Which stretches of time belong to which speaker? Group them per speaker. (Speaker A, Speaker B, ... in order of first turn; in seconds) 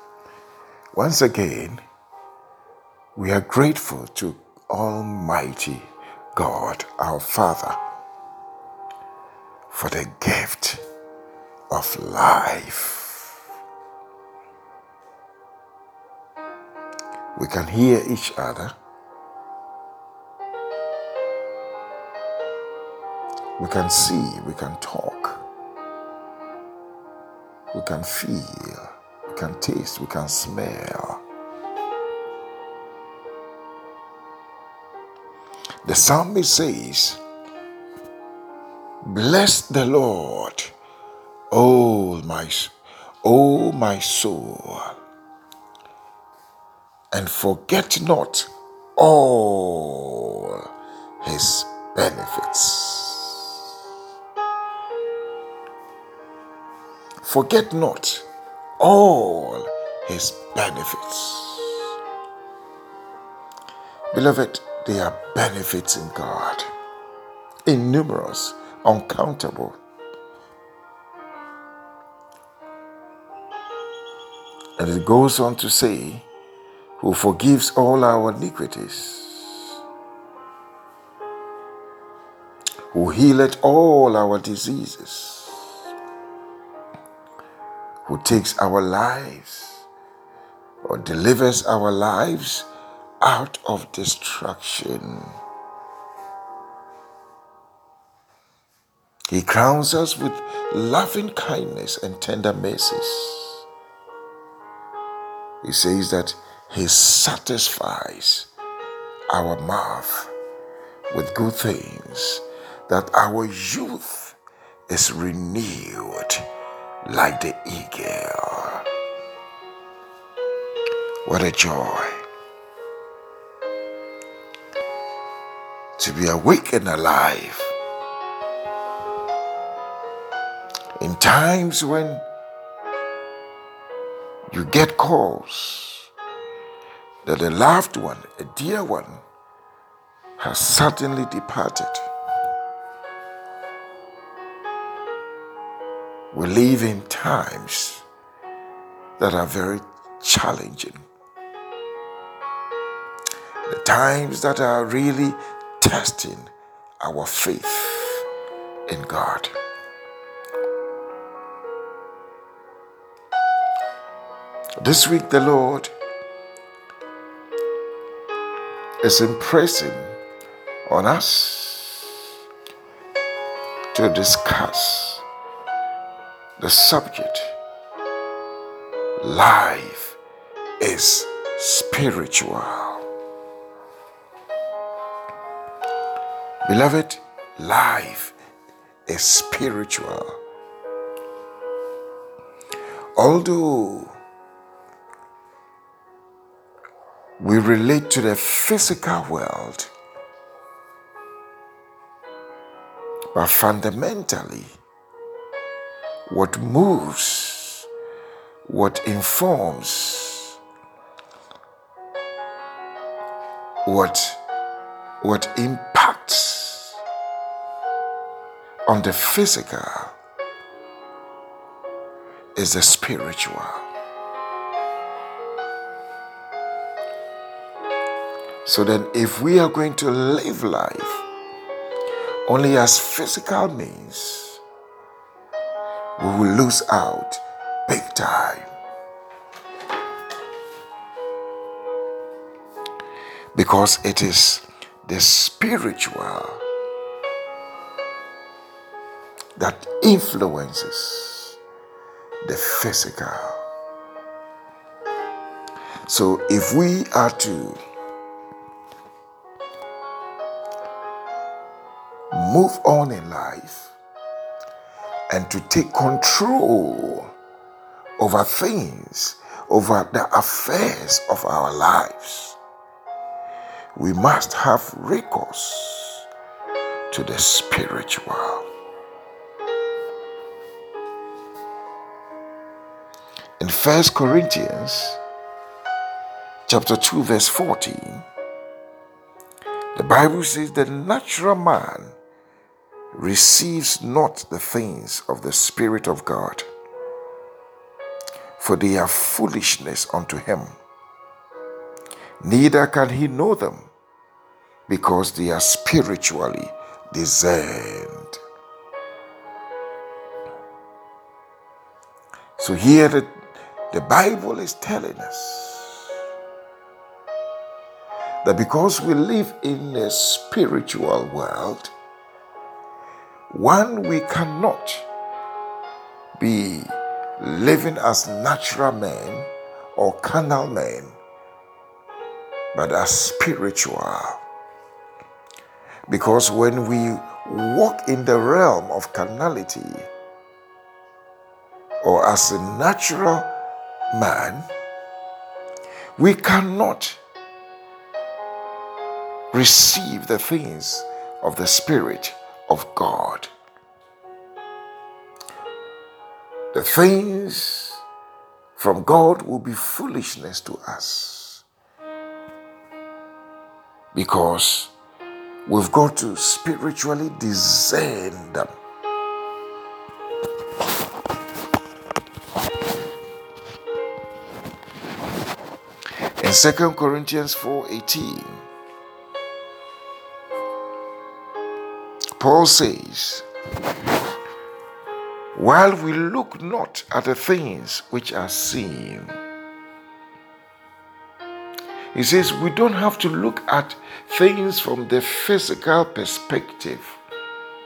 Speaker A: 0.9-1.8, 3.1-7.8, 9.7-10.8, 11.7-13.3, 17.4-18.7, 23.6-25.4, 27.7-31.2, 35.8-37.2, 39.0-40.7, 41.5-45.0, 47.1-50.7, 51.2-53.5, 57.2-58.2, 58.8-61.9, 64.1-66.7, 67.7-69.8, 74.8-76.3, 77.0-79.8, 82.9-85.8, 88.0-89.8, 90.8-92.7, 93.2-95.3, 99.3-103.6, 105.6-108.5, 109.3-110.3, 111.1-116.5, 117.0-118.8, 121.2-122.2, 126.0-127.7, 131.0-132.2, 134.5-136.1, 137.2-139.2, 140.4-142.1, 146.3-148.0, 149.2-151.0, 153.7-158.2, 158.9-159.5, 164.8-165.9, 169.0-170.2, 170.8-172.2, 173.9-175.2, 176.6-177.5, 179.2-180.2, 180.8-183.0, 186.6-188.3, 189.1-190.4, 193.2-194.2, 197.4-199.9, 203.3-204.7, 206.3-207.9, 208.7-210.6, 213.8-214.4, 215.2-217.0, 218.8-220.1, 222.5-223.9, 228.6-231.2, 232.4-234.6, 236.2-238.7, 243.5-246.6, 249.6-251.6, 252.4-253.6, 256.1-257.8, 262.3-263.9, 265.3-267.3, 268.2-272.6, 273.9-276.2, 277.1-278.7, 283.6-285.2, 286.7-288.2, 289.9-292.2, 293.1-296.7, 298.6-300.7, 302.4-303.9, 304.9-308.4, 312.6-316.1, 318.4-321.9, 323.5-325.1, 326.4-331.2, 332.7-334.4, 336.1-340.1, 342.0-343.5, 344.1-344.7, 346.2-347.2, 349.5-353.5, 356.7-358.0, 358.8-361.6, 364.1-364.9, 365.6-368.7, 376.4-378.6, 382.4-383.4, 385.5-389.3, 392.1-397.2